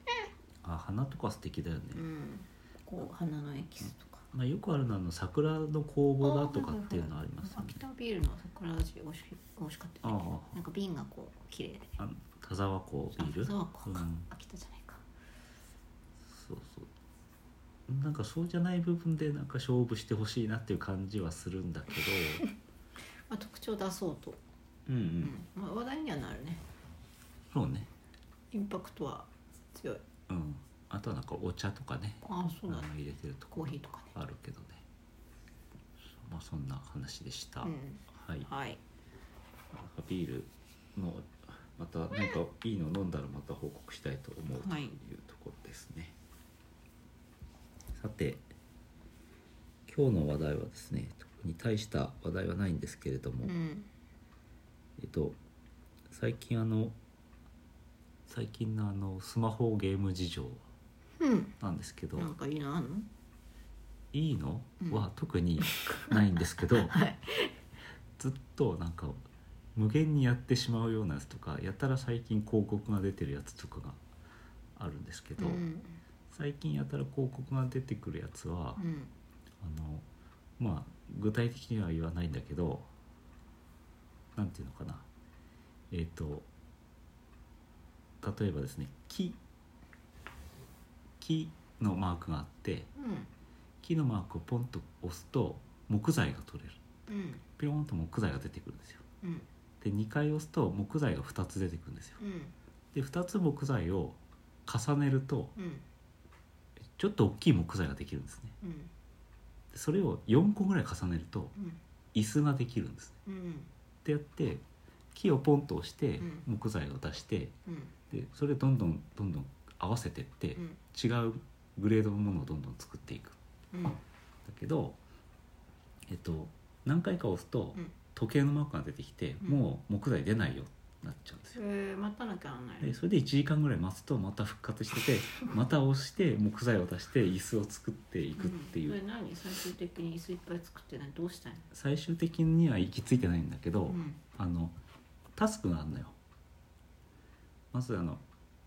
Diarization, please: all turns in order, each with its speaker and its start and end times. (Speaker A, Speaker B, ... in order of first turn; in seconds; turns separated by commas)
Speaker A: 0.6-2.0, Speaker B: 1.9-4.2, Speaker A: 3.8-7.8, Speaker B: 6.2-12.0, Speaker A: 10.0-10.6, Speaker A: 12.0-14.3, Speaker B: 13.2-15.0, Speaker A: 16.2-16.9, Speaker A: 17.9-22.5, Speaker B: 23.3-24.4, Speaker A: 24.9-25.3, Speaker B: 25.2-26.6, Speaker A: 27.5-27.9, Speaker B: 28.5-30.0, Speaker A: 30.3-34.8, Speaker B: 32.2-32.9, Speaker B: 33.5-34.1, Speaker A: 36.1-38.5, Speaker B: 37.6-38.8, Speaker A: 39.7-46.1, Speaker B: 44.5-45.0, Speaker A: 47.9-48.5, Speaker A: 49.9-53.5, Speaker B: 53.4-53.9, Speaker A: 55.0-55.4, Speaker A: 56.1-57.0, Speaker A: 58.3-60.6, Speaker B: 61.2-61.5, Speaker A: 61.6-62.3, Speaker B: 62.1-63.1, Speaker A: 64.1-67.0, Speaker B: 65.6-67.5, Speaker A: 68.2-69.2, Speaker A: 69.7-74.0, Speaker A: 74.8-75.6, Speaker B: 75.4-76.0, Speaker A: 76.3-78.8, Speaker B: 78.8-79.1, Speaker A: 79.6-80.0, Speaker A: 80.6-82.9, Speaker A: 84.3-85.1, Speaker A: 85.9-86.5, Speaker A: 88.2-89.4, Speaker A: 91.2-92.9, Speaker B: 92.9-93.3, Speaker A: 93.8-96.8, Speaker B: 97.1-97.4, Speaker A: 97.6-99.0, Speaker A: 99.8-102.2, Speaker B: 102.2-102.5, Speaker A: 102.9-105.5, Speaker B: 105.5-105.8, Speaker A: 107.0-108.5, Speaker B: 108.6-108.9, Speaker A: 109.7-111.5, Speaker A: 112.1-113.2, Speaker B: 113.2-113.7, Speaker A: 114.0-117.5, Speaker B: 116.2-116.4, Speaker B: 117.7-117.9, Speaker A: 118.1-123.4, Speaker B: 123.7-124.0, Speaker A: 124.4-125.0, Speaker A: 126.1-131.6, Speaker B: 131.5-133.0, Speaker A: 132.8-139.0, Speaker B: 138.4-141.7, Speaker A: 141.7-144.8, Speaker B: 143.9-144.2, Speaker A: 145.3-146.2, Speaker A: 147.7-148.2